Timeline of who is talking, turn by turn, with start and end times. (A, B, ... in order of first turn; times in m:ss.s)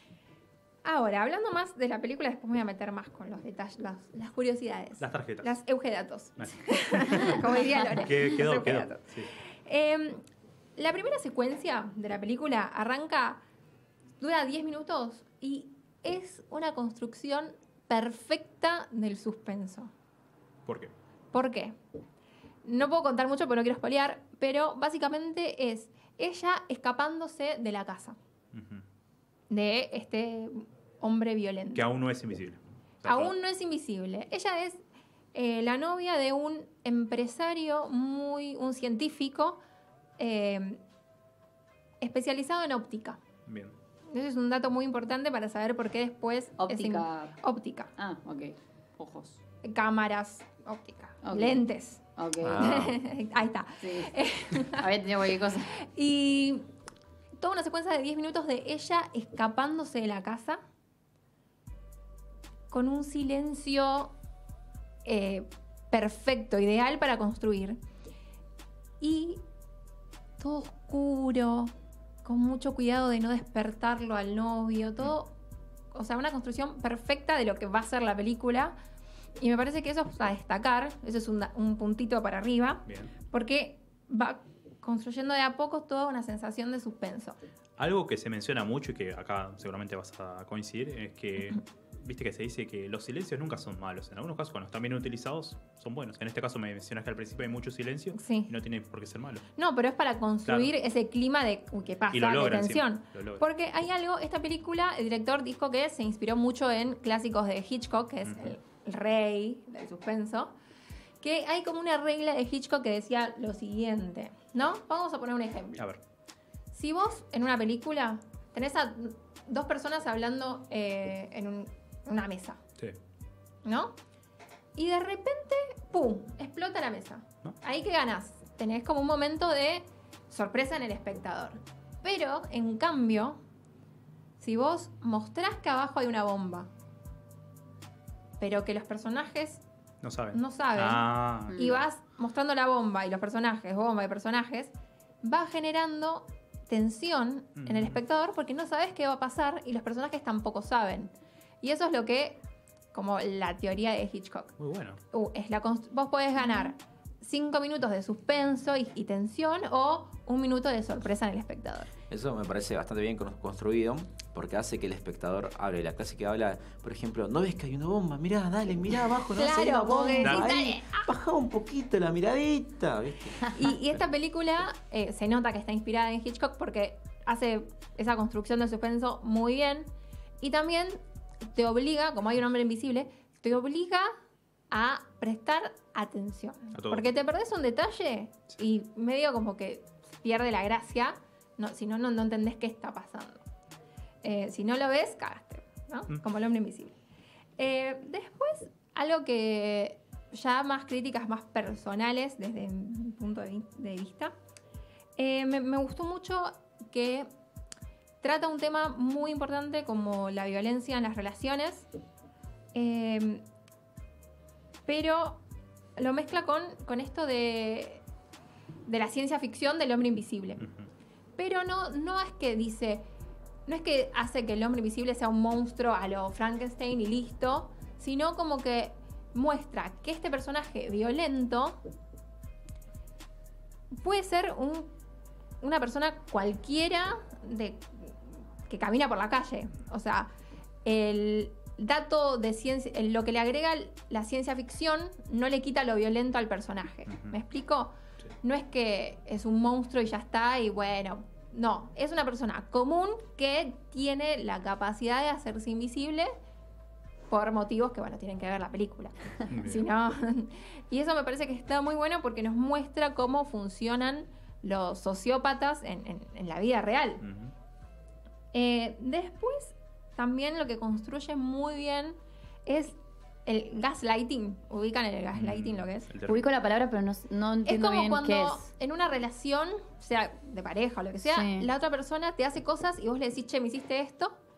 0:00.8-0:10.2 A
0:05.0-0:05.6 B
0:06.4-0:09.3 B
0:10.8-0:13.4 A
0:14.2-0:19.9 A
0:20.7-0:20.9 B
0:21.3-0:21.8 A
0:22.6-0:28.2 A
0:28.5-0:28.8 B
0:29.5-0:31.8 A
0:31.8-0:33.3 B
0:33.0-0:34.8 A
0:35.3-0:39.6 A
0:40.2-0:40.8 A
0:42.0-0:43.2 A
0:43.5-0:43.7 B
0:44.1-0:47.9 A
0:46.6-0:47.4 C
0:48.0-0:49.4 C
0:49.6-0:52.1 A
0:51.2-0:51.6 C
0:52.2-0:52.7 C
0:52.4-0:53.0 D
0:52.6-0:54.9 A
0:53.8-0:54.2 C
0:54.7-0:55.7 C
0:55.7-0:56.6 A
0:57.4-1:00.6 A
1:02.7-1:04.1 A
1:05.0-1:07.8 A
1:09.0-1:09.4 A
1:10.4-1:11.7 A
1:12.2-1:15.3 A
1:15.9-1:18.7 A
1:19.4-1:27.4 A
1:22.9-1:23.1 B
1:27.8-1:39.4 B
1:38.1-1:38.5 A
1:39.6-1:50.5 A
1:42.1-1:43.4 B
1:48.2-1:48.5 B
1:51.2-1:55.9 A
1:56.7-2:02.6 A
2:03.6-2:04.0 A
2:04.8-2:13.4 A
2:14.4-2:16.7 A
2:18.4-2:19.6 A
2:20.0-2:21.6 B
2:20.3-2:31.1 A
2:21.5-2:21.8 C
2:27.6-2:28.0 B
2:31.6-2:32.4 A
2:32.9-2:34.5 A
2:34.6-2:35.0 B
2:35.1-2:41.9 A
2:42.1-2:53.5 D
2:49.4-2:51.1 A
2:50.2-2:50.5 B
2:53.5-2:59.9 A
3:00.4-3:01.0 A
3:01.5-3:04.1 A
3:04.7-3:13.4 A
3:06.8-3:07.1 B
3:14.2-3:16.9 A
3:17.6-3:24.3 A
3:25.2-3:27.3 A
3:28.2-3:31.9 A
3:32.7-3:33.4 A
3:34.9-3:35.4 A
3:36.0-3:38.0 A
3:38.9-3:40.7 A
3:41.4-3:43.1 A
3:43.7-3:51.8 A
3:53.9-3:54.9 A
3:55.6-4:00.3 A
4:00.8-4:16.3 A
4:17.3-4:27.2 A
4:19.5-4:19.9 B
4:27.2-4:27.5 B
4:28.5-4:36.1 A
4:35.3-4:36.5 B
4:36.2-4:38.7 C
4:37.6-4:44.3 A
4:41.2-4:41.7 C